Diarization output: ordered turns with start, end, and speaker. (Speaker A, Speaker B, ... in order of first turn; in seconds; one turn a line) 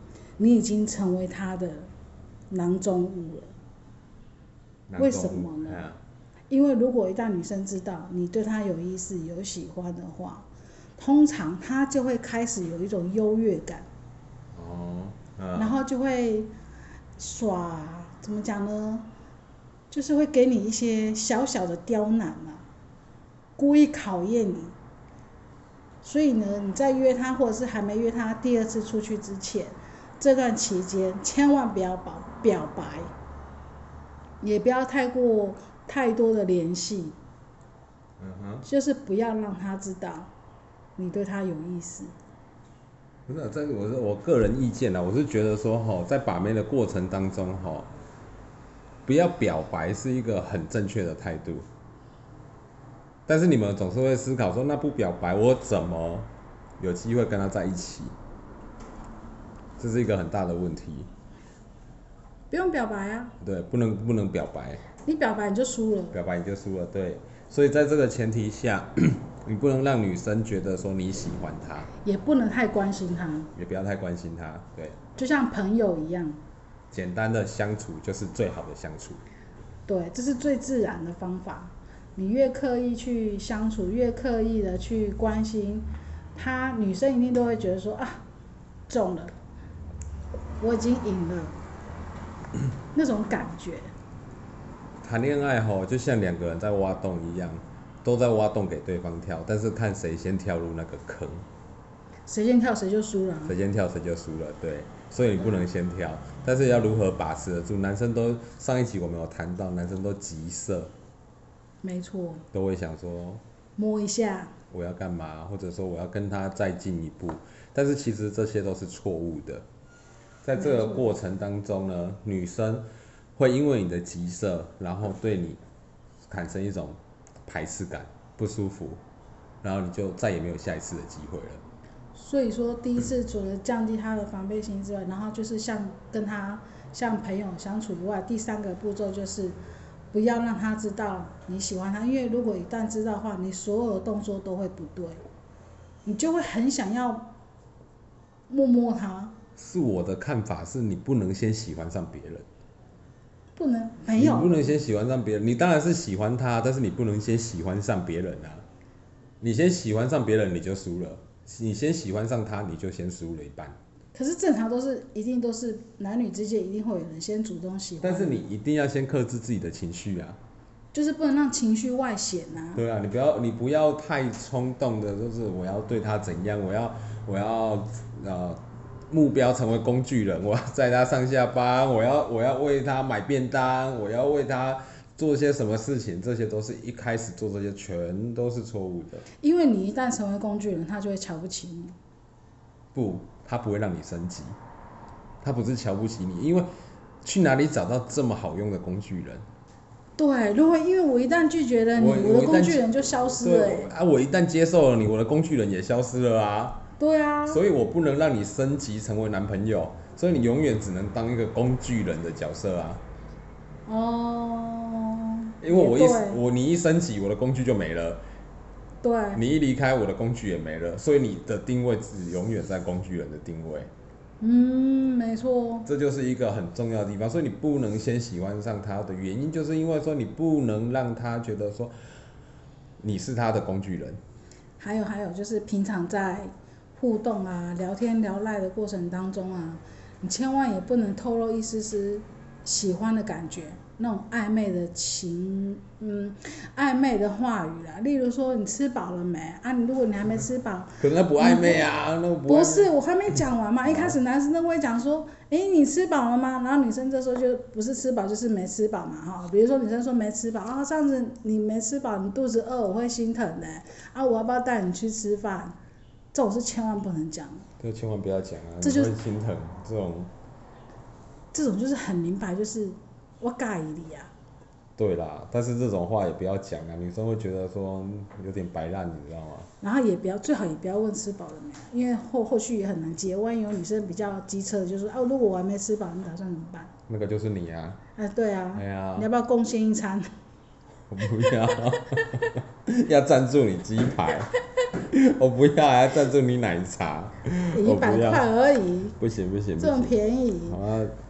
Speaker A: 0.4-1.9
Speaker A: 2.5-3.5
Speaker B: 4.9-6.0
Speaker A: 5.0-5.8
Speaker A: 6.5-10.5
Speaker A: 11.0-13.9
Speaker B: 14.5-15.8
Speaker A: 15.5-16.5
Speaker A: 17.2-19.1
Speaker A: 19.9-22.6
Speaker A: 23.6-24.7
Speaker A: 26.0-33.1
Speaker A: 34.4-37.2
Speaker B: 38.2-38.6
Speaker A: 38.6-40.3
Speaker A: 41.0-42.1
Speaker B: 43.3-47.9
Speaker B: 49.0-51.6
Speaker B: 53.3-58.1
Speaker B: 59.8-61.1
Speaker A: 62.5-63.3
Speaker B: 63.4-64.8
Speaker A: 65.0-66.2
Speaker B: 66.1-71.9
Speaker A: 72.0-73.5
Speaker B: 73.5-75.0
Speaker A: 75.2-76.4
Speaker B: 76.9-79.2
Speaker A: 79.9-88.2
Speaker A: 88.9-89.3
Speaker A: 90.6-91.5
Speaker A: 92.9-93.9
Speaker B: 95.0-101.5
Speaker A: 102.3-103.5
Speaker B: 103.4-110.9
Speaker A: 111.8-112.4
Speaker B: 112.5-113.4
Speaker A: 113.8-114.5
Speaker B: 114.7-119.6
Speaker B: 120.4-122.8
Speaker A: 120.5-121.0
Speaker B: 123.3-125.6
Speaker B: 126.3-129.0
Speaker B: 129.6-131.6
Speaker A: 132.1-139.6
Speaker A: 140.1-145.2
Speaker A: 146.0-147.3
Speaker A: 148.5-149.3
Speaker B: 149.6-152.4
Speaker A: 153.6-154.6
Speaker B: 154.2-158.6
Speaker B: 159.4-163.8
Speaker A: 164.1-168.4
Speaker B: 168.0-170.4
Speaker A: 170.9-172.8
Speaker B: 172.7-189.2
Speaker A: 189.4-191.9
Speaker B: 192.9-194.6
Speaker B: 195.4-196.7
Speaker B: 197.2-199.4
Speaker A: 200.2-203.9
Speaker B: 201.9-202.9
Speaker B: 203.4-206.8
Speaker A: 207.0-207.6
Speaker B: 207.5-213.0
Speaker A: 213.9-216.4
Speaker B: 215.6-218.2
Speaker A: 219.0-219.4
Speaker B: 219.3-223.9
Speaker A: 224.4-225.9
Speaker B: 225.8-231.9
Speaker B: 233.0-234.2
Speaker A: 234.8-251.8
Speaker B: 251.0-252.9
Speaker A: 252.4-265.8
Speaker B: 253.8-254.2
Speaker A: 266.3-267.6
Speaker B: 267.8-270.3
Speaker A: 268.8-269.1
Speaker A: 271.5-274.3
Speaker B: 275.0-279.7
Speaker A: 279.8-286.9
Speaker B: 287.1-288.0
Speaker A: 288.1-290.3
Speaker B: 288.7-289.3
Speaker B: 291.1-298.4
Speaker A: 297.7-299.2
Speaker B: 299.2-300.1
Speaker A: 299.8-300.8
Speaker B: 300.7-301.1